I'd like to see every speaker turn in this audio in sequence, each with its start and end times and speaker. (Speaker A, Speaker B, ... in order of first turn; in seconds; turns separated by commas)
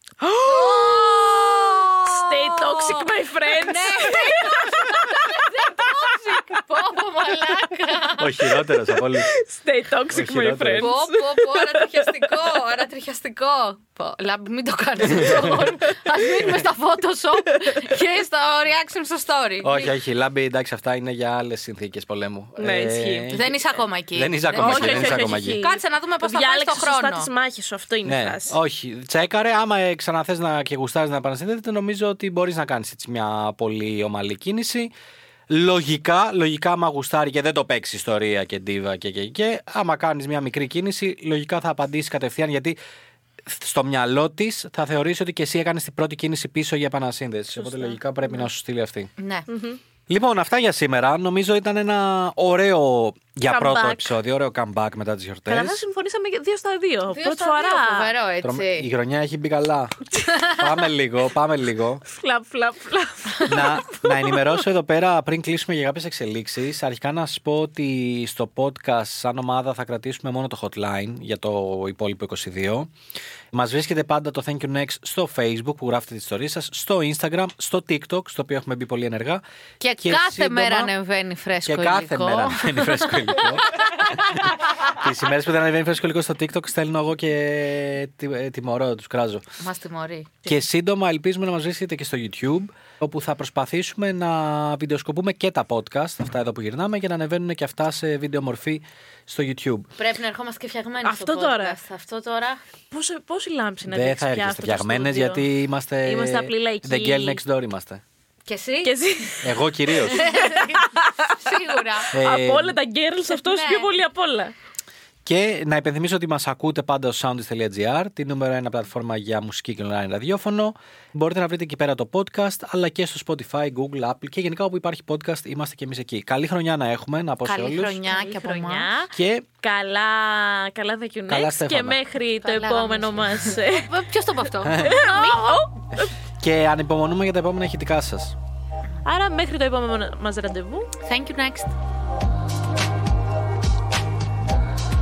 Speaker A: 0.2-5.3, Speaker B: 0.5-8.4, Speaker C: 8.2-9.3, Speaker A: 8.7-12.3, Speaker C: 10.1-10.9, Speaker B: 10.8-19.9, Speaker C: 15.2-15.5, Speaker C: 19.6-23.6, Speaker A: 22.6-23.3, Speaker B: 23.3-27.3, Speaker C: 24.1-25.6, Speaker A: 24.6-28.6, Speaker C: 28.1-34.9, Speaker C: 35.5-42.8, Speaker C: 43.5-49.1, Speaker A: 47.5-48.5, Speaker B: 49.2-49.5, Speaker A: 49.5-49.8, Speaker C: 50.1-55.8, Speaker A: 53.5-54.1, Speaker A: 55.5-58.1, Speaker B: 57.1-58.9, Speaker C: 58.4-62.0, Speaker A: 62.1-64.4, Speaker C: 63.5-72.9, Speaker C: 73.5-79.4, Speaker B: 79.8-84.4, Speaker C: 80.0-80.9, Speaker C: 81.7-83.7, Speaker C: 84.8-89.4, Speaker B: 89.6-90.5, Speaker C: 90.5-99.9, Speaker B: 100.0-102.6, Speaker A: 101.0-101.8, Speaker A: 102.9-105.5, Speaker C: 103.9-108.0, Speaker A: 106.0-107.4, Speaker B: 108.5-109.0, Speaker A: 108.8-111.4, Speaker C: 109.4-110.3, Speaker B: 110.1-112.1, Speaker A: 112.1-114.5, Speaker C: 112.1-112.8, Speaker B: 113.3-113.9, Speaker C: 115.2-128.0, Speaker B: 127.4-128.9, Speaker A: 128.1-133.9, Speaker C: 129.1-129.4, Speaker C: 131.3-132.0, Speaker B: 132.4-135.7, Speaker C: 134.6-135.0, Speaker A: 134.8-136.1, Speaker C: 136.4-138.4, Speaker A: 139.1-140.9, Speaker B: 141.1-141.7